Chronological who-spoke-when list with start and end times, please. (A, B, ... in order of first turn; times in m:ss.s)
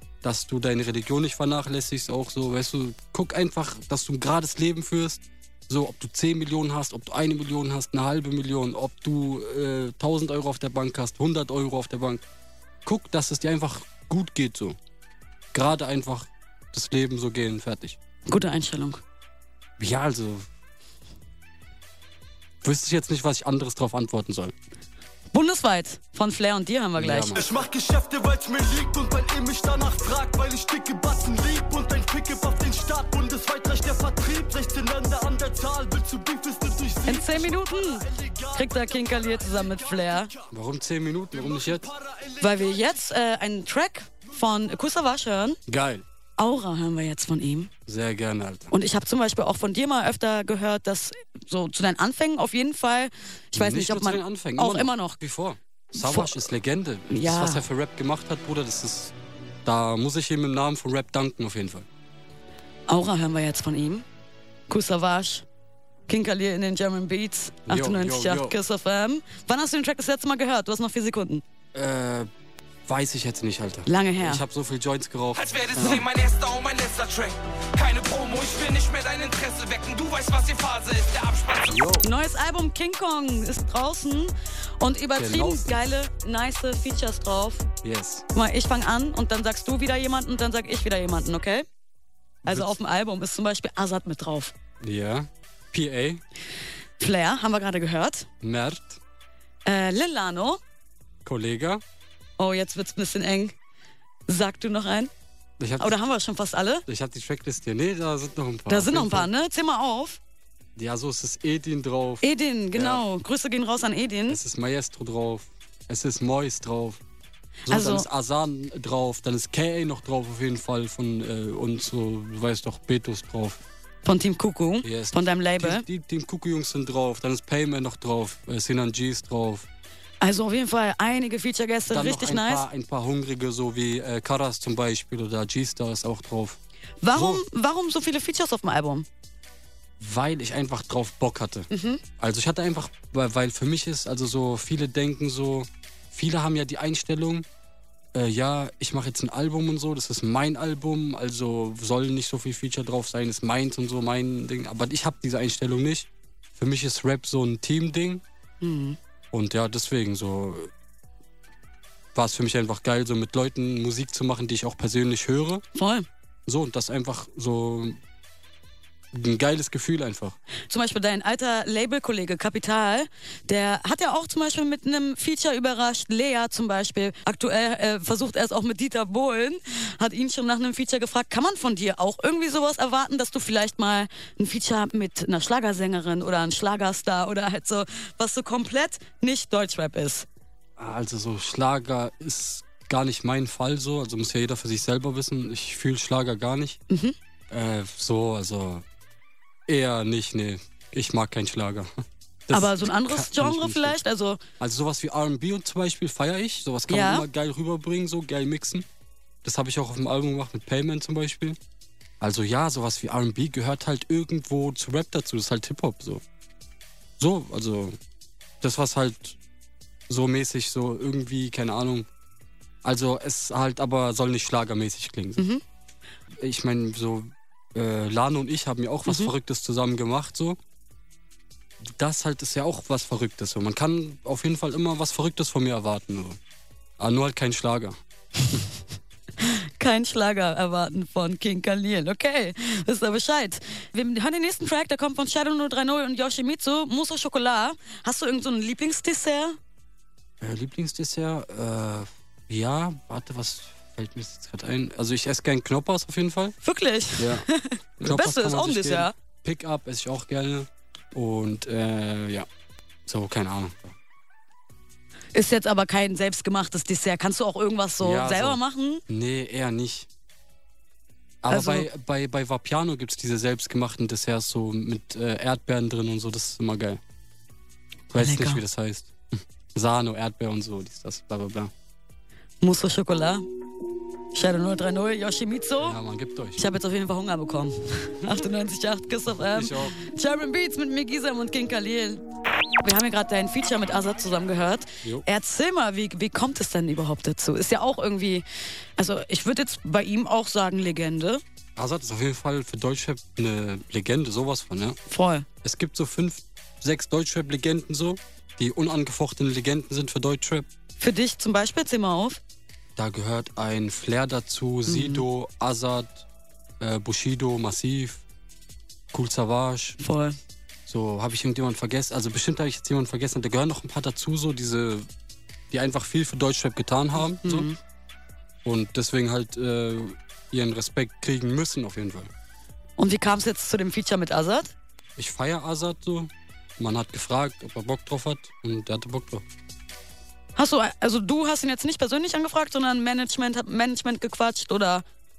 0:00.2-0:12.2 A
0:12.8-0:14.8 A
0:15.5-0:18.0 A
0:18.3-0:19.0 B
0:19.8-0:20.5 A
0:22.6-0:24.5 A
0:25.3-0:27.4 B
0:27.0-0:27.5 A
0:27.3-0:40.4 C
0:37.0-0:40.3 B
0:40.5-0:41.9 A
0:41.4-0:42.8 C
0:42.4-0:45.6 B
0:45.7-0:46.0 A
0:46.4-0:47.7 B
0:47.9-0:48.7 A
0:48.7-0:55.2 B
0:53.5-1:01.8 A
0:55.9-0:56.4 B
0:57.1-0:57.6 B
1:02.9-1:04.0 B
1:04.7-1:05.4 B
1:06.1-1:11.4 B
1:07.7-1:08.6 A
1:11.7-1:12.3 A
1:12.8-1:16.1 A
1:13.8-1:14.4 B
1:15.4-1:21.8 D
1:21.7-1:22.1 A
1:22.0-1:27.6 B
1:25.1-1:25.8 A
1:27.8-1:28.2 A
1:28.3-1:31.6 B
1:32.4-1:32.7 A
1:32.4-1:34.5 B
1:34.8-1:36.2 A
1:37.0-1:38.3 B
1:38.4-1:39.0 A
1:39.6-1:40.6 B
1:41.2-1:41.8 A
1:42.4-1:43.6 B
1:44.3-1:45.1 B
1:45.6-1:46.0 A
1:45.8-1:46.8 B
1:46.9-1:49.3 A
1:48.7-1:50.2 B
1:50.8-1:53.0 A
1:52.2-1:54.4 B
1:54.3-1:57.0 A
1:57.7-1:58.1 B
1:57.7-2:03.6 A
2:04.0-2:05.8 B
2:04.8-2:09.7 A
2:10.2-2:12.6 B
2:11.9-2:16.6 A
2:17.0-2:19.0 B
2:17.1-2:17.4 A
2:20.0-2:27.4 A
2:21.7-2:22.0 B
2:28.1-2:38.2 A
2:38.6-2:39.0 B
2:39.3-2:40.7 A
2:42.1-2:45.6 A
2:45.7-2:46.1 B
2:46.5-2:48.0 A
2:49.1-2:50.4 A
2:50.7-3:10.3 B
3:10.8-3:16.8 A
3:16.9-3:17.1 B
3:17.5-3:18.8 A
3:19.7-3:21.9 A
3:22.5-3:24.0 A
3:22.5-3:24.4 B
3:24.6-3:28.8 A
3:26.9-3:27.2 B
3:29.4-3:31.6 A
3:32.2-3:36.2 A
3:37.2-3:38.0 A
3:38.6-3:39.4 A
3:40.1-3:42.1 A
3:42.8-3:45.4 A
3:46.3-3:50.6 A
3:49.0-3:49.3 B
3:51.8-3:56.4 A
3:57.0-3:58.0 A
3:59.4-4:09.6 B
4:10.4-4:16.6 A
4:16.6-4:19.1 B
4:17.2-4:17.4 A
4:18.0-4:22.5 A
4:23.1-4:23.9 A
4:25.3-4:29.0 B
4:28.0-4:30.1 A
4:31.4-4:37.0 A
4:31.5-4:31.9 B
4:38.1-4:39.1 A
4:38.1-4:38.6 B
4:39.7-4:41.7 A
4:42.6-4:43.4 B
4:44.3-4:46.0 B
4:45.8-4:46.6 A
4:46.6-4:52.2 B
4:49.4-4:50.0 A
4:52.8-4:58.4 B
4:59.0-5:01.4 B
5:01.8-5:05.0 A
5:05.1-5:05.5 B
5:05.6-5:10.6 A
5:11.0-5:12.4 B
5:13.0-5:16.2 A
5:14.8-5:15.2 B
5:16.8-5:18.2 A
5:19.1-5:20.0 A
5:20.0-5:20.4 B
5:20.9-5:25.1 A
5:25.7-5:27.7 A
5:27.2-5:27.8 B
5:28.6-5:32.3 A
5:33.0-5:34.7 B
5:35.2-5:39.4 A
5:40.6-5:45.0 B